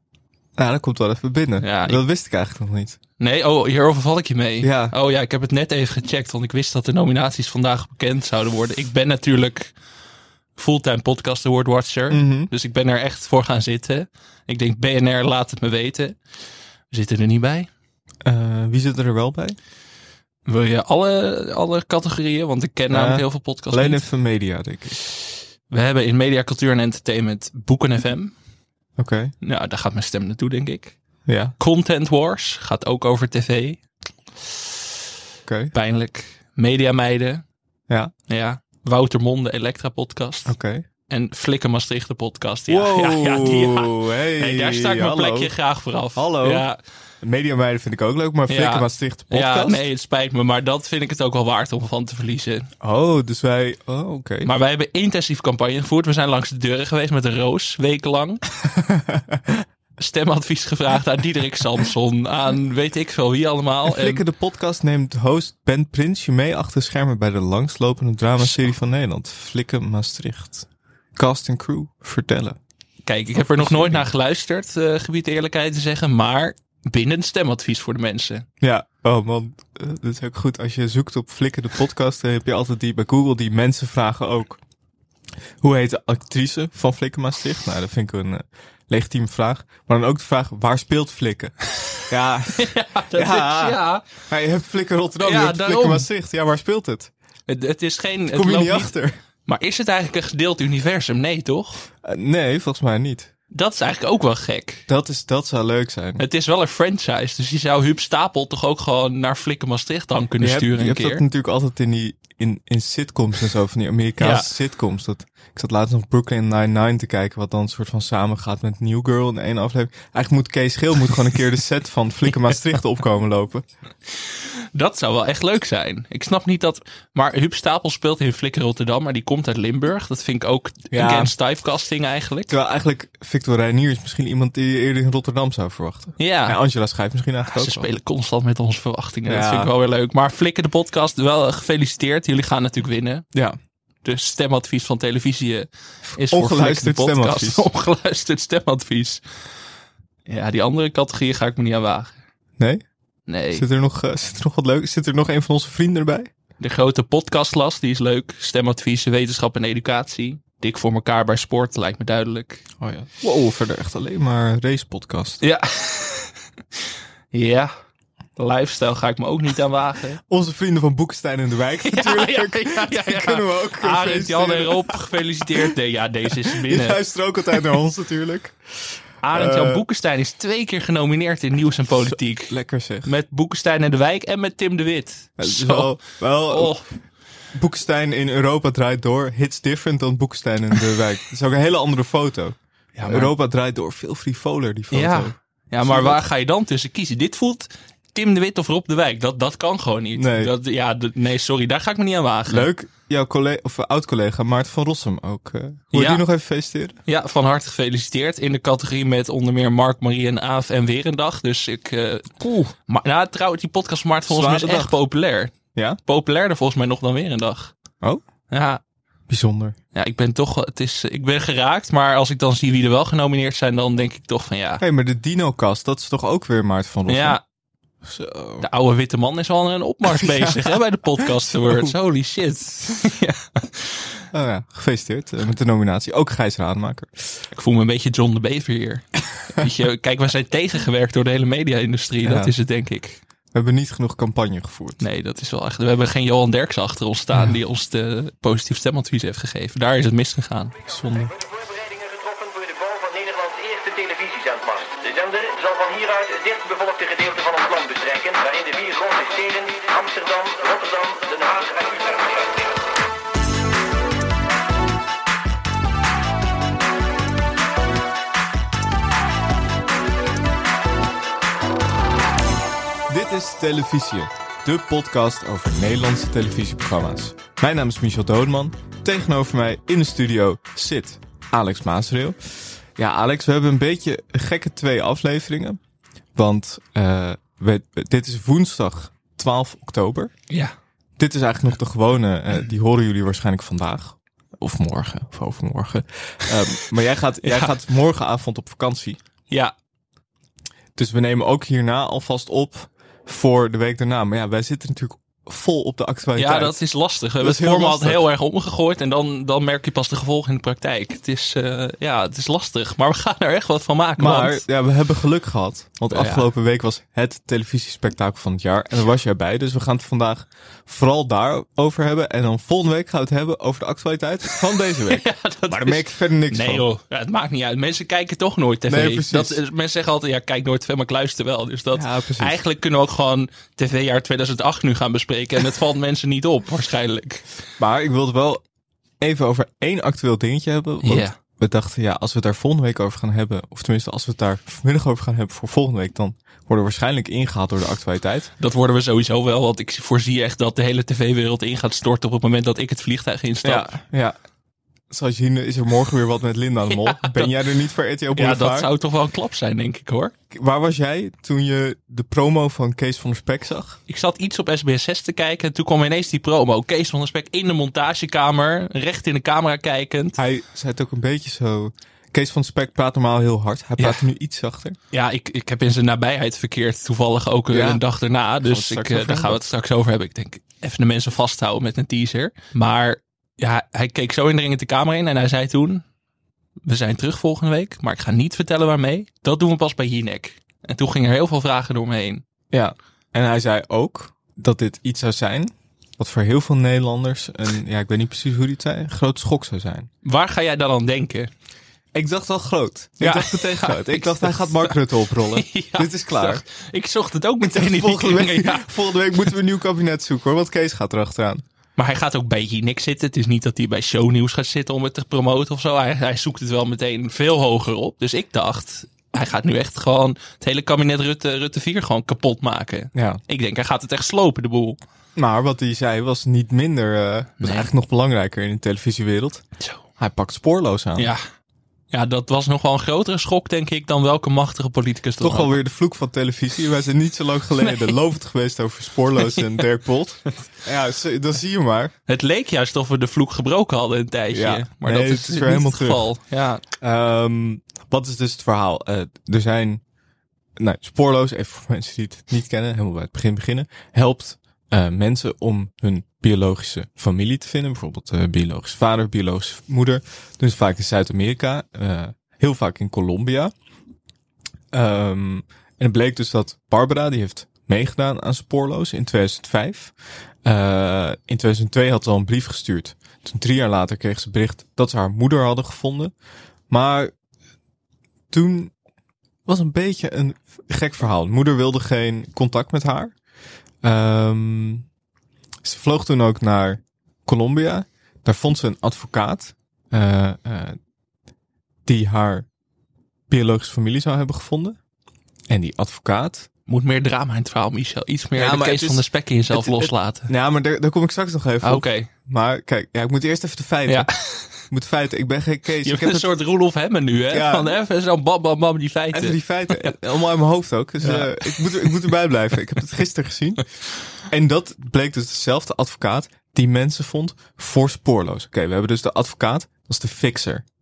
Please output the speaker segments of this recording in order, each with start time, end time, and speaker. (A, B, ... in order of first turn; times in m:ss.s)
0:00.6-0:03.0 A
0:01.6-0:02.0 B
0:03.2-0:09.7 B
0:04.6-0:05.0 A
0:10.6-0:16.2 B
0:12.1-0:12.5 A
0:16.9-0:17.7 B
0:18.2-0:19.6 A
0:20.5-0:24.0 B
0:22.9-0:25.0 A
0:25.7-0:28.3 B
0:29.0-0:29.3 A
0:29.4-0:31.0 B
0:31.3-0:31.6 A
0:31.6-0:33.8 B
0:35.5-0:35.7 A
0:35.7-0:37.4 B
0:38.3-0:40.6 B
0:40.5-0:40.8 A
0:41.1-0:46.8 B
0:42.7-0:45.5 A
0:46.2-0:46.7 A
0:47.2-0:49.8 A
0:48.5-0:52.7 B
0:52.8-0:54.5 A
0:54.4-0:58.4 B
0:58.9-0:59.4 A
1:00.0-1:04.2 B
1:03.8-1:12.6 A
1:13.1-1:18.5 B
1:13.5-1:14.1 A
1:18.6-1:24.6 A
1:25.6-1:37.1 A
1:32.6-1:34.1 B
1:35.2-1:36.1 B
1:37.5-1:38.9 B
1:38.3-1:39.2 A
1:39.5-1:41.8 B
1:42.0-1:43.3 A
1:43.5-1:44.8 B
1:44.9-1:46.2 A
1:46.2-1:51.2 B
1:50.4-2:03.6 A
1:54.2-1:54.5 B
2:04.7-2:12.5 B
2:10.9-2:11.3 A
2:12.5-2:17.9 A
2:16.2-2:16.6 B
2:17.5-2:23.2 B
2:19.3-2:19.7 A
2:24.0-2:29.2 B
2:26.1-2:27.7 A
2:30.3-2:32.1 B
2:32.6-2:32.8 A
2:33.3-2:33.6 B
2:33.5-2:36.3 A
2:36.6-2:42.6 B
2:42.8-2:45.4 A
2:45.4-2:46.4 B
2:47.3-2:47.7 B
2:48.4-2:50.2 B
2:50.3-2:55.7 A
2:51.8-2:57.0 B
2:56.3-2:59.8 A
2:59.2-3:06.0 B
3:01.9-3:03.1 A
3:05.4-3:06.8 A
3:06.5-3:06.8 B
3:07.5-3:16.2 A
3:13.0-3:13.3 B
3:14.9-3:22.7 B
3:20.2-3:20.5 A
3:22.5-3:27.0 A
3:25.9-3:26.2 B
3:27.1-3:35.5 B
3:32.4-3:32.7 A
3:34.3-3:35.0 A
3:36.0-3:37.7 B
3:38.5-3:38.8 B
3:39.3-3:39.8 A
3:39.9-3:44.8 B
3:44.8-3:47.4 A
3:47.1-3:47.4 B
3:48.0-3:48.7 A
3:48.6-3:54.0 B
3:50.2-3:50.8 A
3:51.5-3:51.9 A
3:54.3-3:57.3 A
3:57.5-4:03.2 B
4:02.2-4:02.6 A
4:03.5-4:05.0 A
4:05.0-4:10.8 B
4:10.9-4:11.3 A
4:11.4-4:22.8 C
4:33.1-4:42.4 A
4:43.0-4:45.8 A
4:46.4-4:50.3 A
4:51.2-4:59.2 A
4:57.4-4:57.8 B
4:59.5-4:59.7 B
5:01.0-5:06.8 A
5:06.4-5:14.6 B
5:07.4-5:08.3 A
5:14.2-5:26.8 A
5:16.1-5:16.5 B
5:25.1-5:37.4 B
5:28.9-5:29.6 A
5:31.9-5:32.6 A
5:37.8-5:38.6 A
5:39.2-5:48.5 A
5:41.0-5:41.4 B
5:48.6-5:53.9 B
5:53.6-5:54.4 A
5:55.1-5:58.9 A
5:56.9-5:57.5 B
5:58.4-6:00.3 B
6:00.5-6:04.0 A
6:04.1-6:10.4 B
6:10.4-6:15.0 A
6:14.0-6:14.2 B
6:15.1-6:26.0 B
6:17.7-6:18.0 A
6:18.6-6:19.6 A
6:26.8-6:32.4 B
6:32.7-6:40.1 A
6:40.2-6:41.5 B
6:42.1-6:46.6 A
6:43.2-6:45.0 B
6:45.5-6:48.9 B
6:47.6-6:51.6 A
6:52.0-7:05.0 B
7:03.2-7:03.4 A
7:05.4-7:09.7 A
7:07.6-7:07.9 B
7:10.2-7:11.3 A
7:11.2-7:11.4 B
7:12.1-7:15.8 B
7:15.4-7:22.1 A
7:22.3-7:26.8 B
7:24.5-7:26.3 A
7:27.0-7:30.0 A
7:30.8-7:43.7 A
7:44.9-7:50.1 A
7:50.6-7:56.3 A
7:56.9-7:57.3 A
7:58.5-7:58.9 A
7:59.7-8:03.3 A
8:04.0-8:05.0 A
8:05.8-8:11.0 A
8:12.1-8:12.7 A
8:13.5-8:15.0 A
8:15.7-8:16.7 A
8:16.9-8:20.5 B
8:18.6-8:26.5 A
8:21.8-8:22.3 B
8:24.1-8:24.8 B
8:26.0-8:30.1 B
8:27.5-8:27.9 A
8:29.3-8:33.9 A
8:31.2-8:32.2 B
8:34.5-8:40.8 A